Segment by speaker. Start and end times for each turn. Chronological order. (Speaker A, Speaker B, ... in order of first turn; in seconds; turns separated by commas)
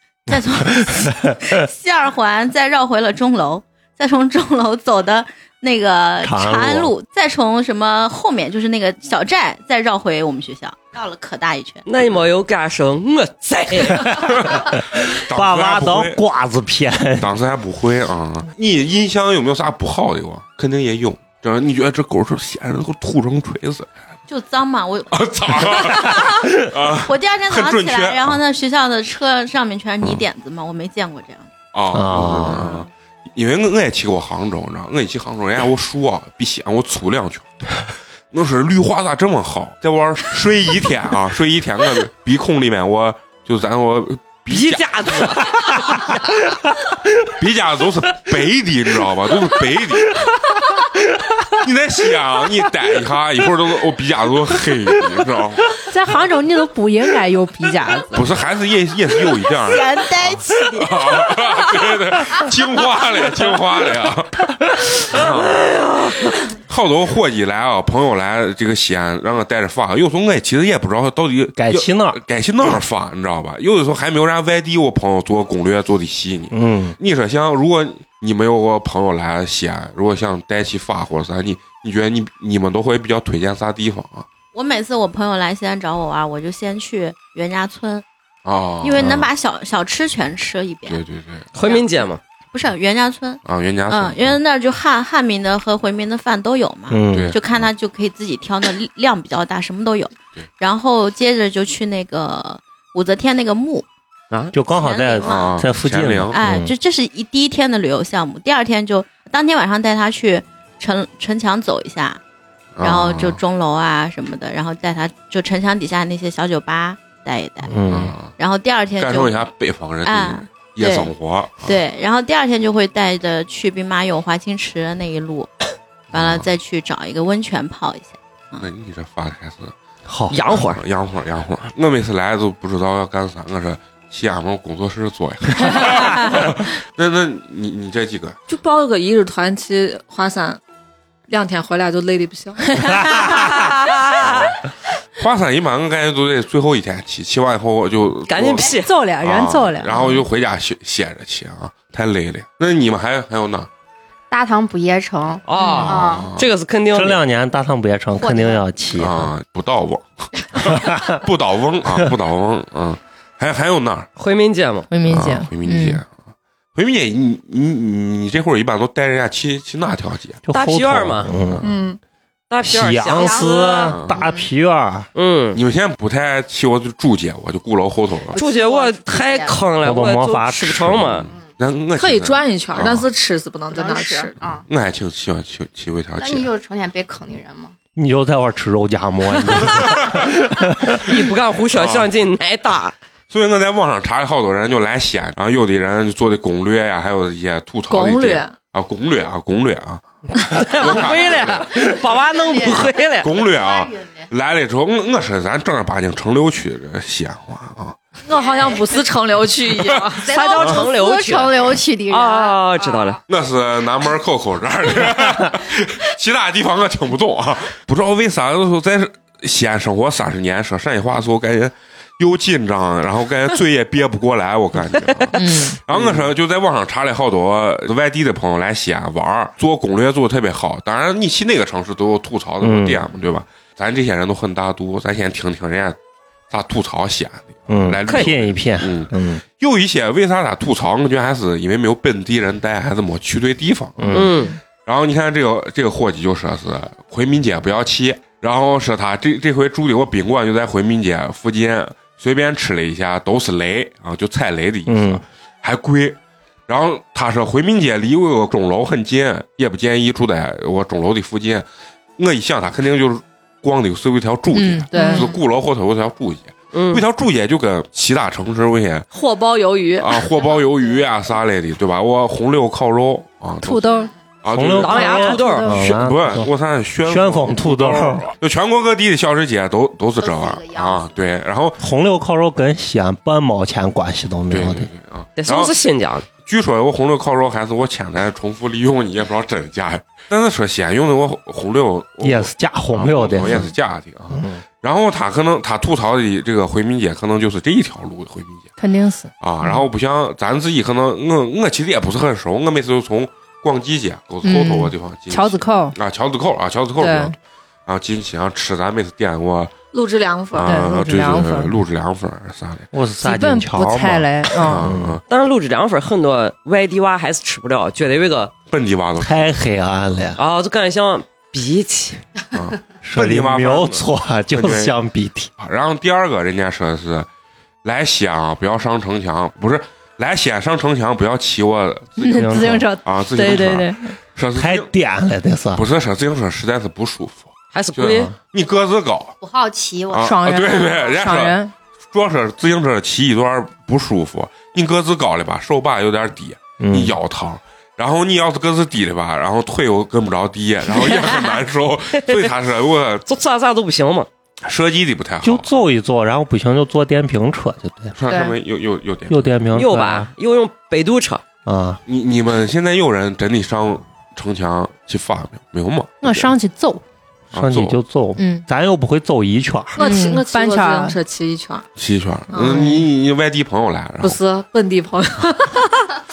Speaker A: 0.3-11.8, Speaker B: 6.2-6.9, Speaker C: 11.8-14.5, Speaker D: 14.3-16.2, Speaker B: 15.2-17.3, Speaker D: 17.2-23.9, Speaker A: 24.3-26.2, Speaker D: 25.1-28.4, Speaker A: 27.0-31.5, Speaker D: 31.7-37.5, Speaker B: 31.9-32.8, Speaker D: 38.3-45.5, Speaker C: 44.5-46.3, Speaker D: 47.3-50.2, Speaker D: 51.6-55.8, Speaker E: 55.9-58.3, Speaker D: 58.1-64.4, Speaker A: 59.6-60.9, Speaker D: 65.0-65.7, Speaker C: 65.2-66.3, Speaker D: 66.7-84.3, Speaker B: 71.5-72.2, Speaker B: 76.5-77.0, Speaker A: 84.5-88.0, Speaker D: 88.4-89.3, Speaker A: 88.8-91.0, Speaker D: 90.9-91.5, Speaker C: 91.5-92.2, Speaker A: 91.6-91.8, Speaker A: 92.5-103.8, Speaker D: 93.4-94.4, Speaker B: 96.9-97.3, Speaker D: 97.1-97.4, Speaker B: 104.5-106.7, Speaker A: 104.7-105.6, Speaker D: 105.2-106.3, Speaker A: 106.3-112.2, Speaker D: 112.8-113.4, Speaker A: 112.8-117.7, Speaker B: 117.6-118.1, Speaker D: 117.9-118.3, Speaker A: 118.3-119.5, Speaker D: 119.0-121.7, Speaker A: 120.0-125.5, Speaker D: 126.1-126.5, Speaker A: 126.1-128.7, Speaker D: 128.6-129.7, Speaker B: 130.1-130.5, Speaker C: 130.3-130.8, Speaker D: 130.7-138.4, Speaker F: 138.5-140.6, Speaker F: 141.3-143.4, Speaker C: 143.1-144.5, Speaker D: 144.2-144.5, Speaker D: 145.2-153.7, Speaker C: 148.3-148.9, Speaker E: 148.8-150.2, Speaker G: 154.3-156.3, Speaker C: 155.5-157.2, Speaker D: 155.8-156.4, Speaker B: 156.9-159.3, Speaker G: 158.1-158.6, Speaker D: 158.9-164.1, Speaker B: 160.7-161.1, Speaker C: 164.2-164.9, Speaker E: 164.9-166.0, Speaker D: 165.1-166.1, Speaker D: 166.7-170.4, Speaker B: 170.5-171.7, Speaker C: 170.5-171.3, Speaker F: 171.6-172.0, Speaker C: 172.5-173.9, Speaker B: 172.7-175.1, Speaker G: 173.1-174.5, Speaker D: 173.9-174.2, Speaker C: 175.1-175.6, Speaker D: 175.5-178.3, Speaker G: 178.3-179.7, Speaker C: 178.3-181.3, Speaker B: 179.8-181.3, Speaker D: 180.9-183.1, Speaker F: 181.9-184.3, Speaker G: 183.7-184.7, Speaker D: 184.7-186.5, Speaker G: 186.2-187.7, Speaker B: 187.9-191.0, Speaker D: 189.6-190.0, Speaker C: 191.0-192.9, Speaker D: 191.7-192.1, Speaker D: 193.3-200.0, Speaker F: 197.9-198.6, Speaker C: 200.5-203.3, Speaker D: 200.6-201.7, Speaker G: 201.8-204.3, Speaker D: 203.2-208.0, Speaker F: 208.3-210.3, Speaker G: 208.4-208.7, Speaker D: 209.8-210.8, Speaker G: 210.2-213.2, Speaker C: 210.2-213.2, Speaker D: 213.3-236.0, Speaker E: 225.3-225.8, Speaker B: 225.9-226.3, Speaker B: 232.6-233.0, Speaker D: 236.5-269.1, Speaker B: 237.7-239.4, Speaker C: 238.0-238.3, Speaker B: 244.0-244.3, Speaker C: 244.1-244.6, Speaker B: 254.9-255.2, Speaker E: 264.5-265.3, Speaker C: 266.7-267.0, Speaker F: 269.1-270.2, Speaker D: 270.0-281.8, Speaker E: 273.6-274.1, Speaker B: 274.5-276.5, Speaker C: 274.8-275.7, Speaker E: 274.8-276.0, Speaker B: 277.0-278.3, Speaker G: 280.2-281.1, Speaker B: 281.8-284.9, Speaker D: 284.5-285.7, Speaker C: 285.4-286.3, Speaker D: 286.4-298.7, Speaker B: 292.2-293.7, Speaker B: 294.3-294.6, Speaker E: 298.8-299.3, Speaker D: 299.4-309.7, Speaker E: 304.4-305.9, Speaker E: 307.0-307.3, Speaker F: 309.9-310.9, Speaker D: 310.5-312.9, Speaker E: 310.6-311.7, Speaker B: 312.9-315.2, Speaker E: 313.2-314.9, Speaker D: 314.6-315.2, Speaker C: 315.3-318.5, Speaker D: 318.7-319.5, Speaker B: 319.2-320.4, Speaker C: 320.4-322.2, Speaker D: 322.5-324.9, Speaker B: 323.0-325.5, Speaker D: 325.6-327.3, Speaker D: 327.8-334.9, Speaker E: 332.2-334.1, Speaker B: 332.4-332.9, Speaker B: 334.5-335.9, Speaker D: 335.7-339.3, Speaker C: 337.7-338.3, Speaker G: 339.4-340.4, Speaker D: 340.1-341.6, Speaker E: 340.2-341.7, Speaker D: 342.1-353.2, Speaker B: 346.8-347.2, Speaker C: 350.9-351.6, Speaker C: 353.2-354.3, Speaker D: 354.6-355.7, Speaker B: 355.4-358.2, Speaker D: 358.1-359.5, Speaker G: 358.2-358.5, Speaker B: 359.3-360.3, Speaker C: 359.7-361.4, Speaker B: 361.6-362.0, Speaker D: 362.1-366.5, Speaker E: 366.2-367.0, Speaker D: 367.5-368.0, Speaker B: 367.5-370.0, Speaker E: 368.4-368.6, Speaker E: 370.0-371.2, Speaker F: 370.0-371.9, Speaker D: 371.9-374.4, Speaker F: 372.5-373.0, Speaker E: 372.6-372.9, Speaker F: 374.2-376.1